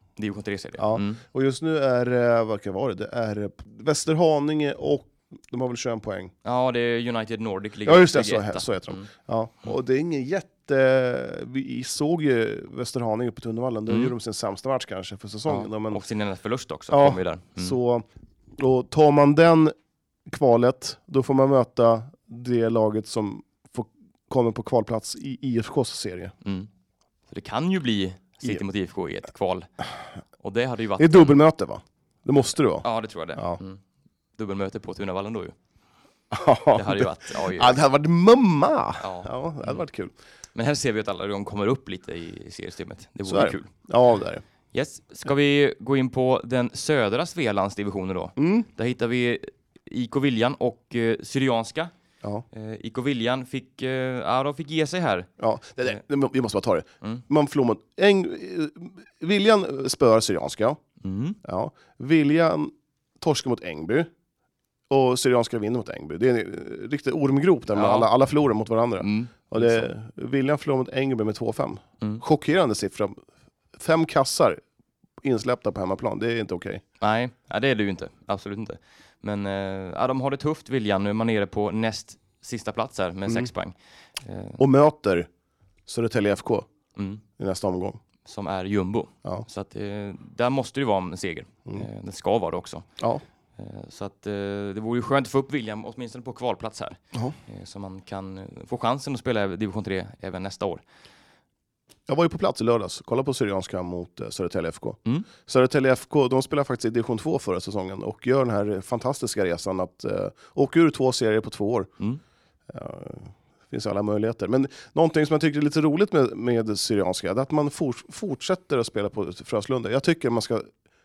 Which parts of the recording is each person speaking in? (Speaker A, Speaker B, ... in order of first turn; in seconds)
Speaker A: 0.2-1.2, 6.5-9.1, 13.9-14.1, 15.5-17.8, 26.4-26.7, 27.3-29.7, 30.4-31.4, 32.8-33.8, 34.4-35.5, 36.7-37.8, 39.0-39.8, 40.5-43.7, 44.7-51.9, 52.5-55.3, 61.0-61.4, 67.7-68.1, 69.0-69.9, 77.0-84.6, 87.0-87.2, 88.2-92.9, 93.6-100.8
Speaker B: 0.8-6.3, 7.8-16.0, 16.9-18.1, 18.6-19.8, 20.3-26.3, 31.0-33.6, 36.3-40.1, 43.3-44.4, 48.4-48.7, 55.4-60.8, 61.4-64.1, 64.9-73.2, 73.8-74.6, 75.2-76.8, 84.6-85.3, 85.9-86.7, 87.4-88.0, 102.1-111.9, 112.7-120.7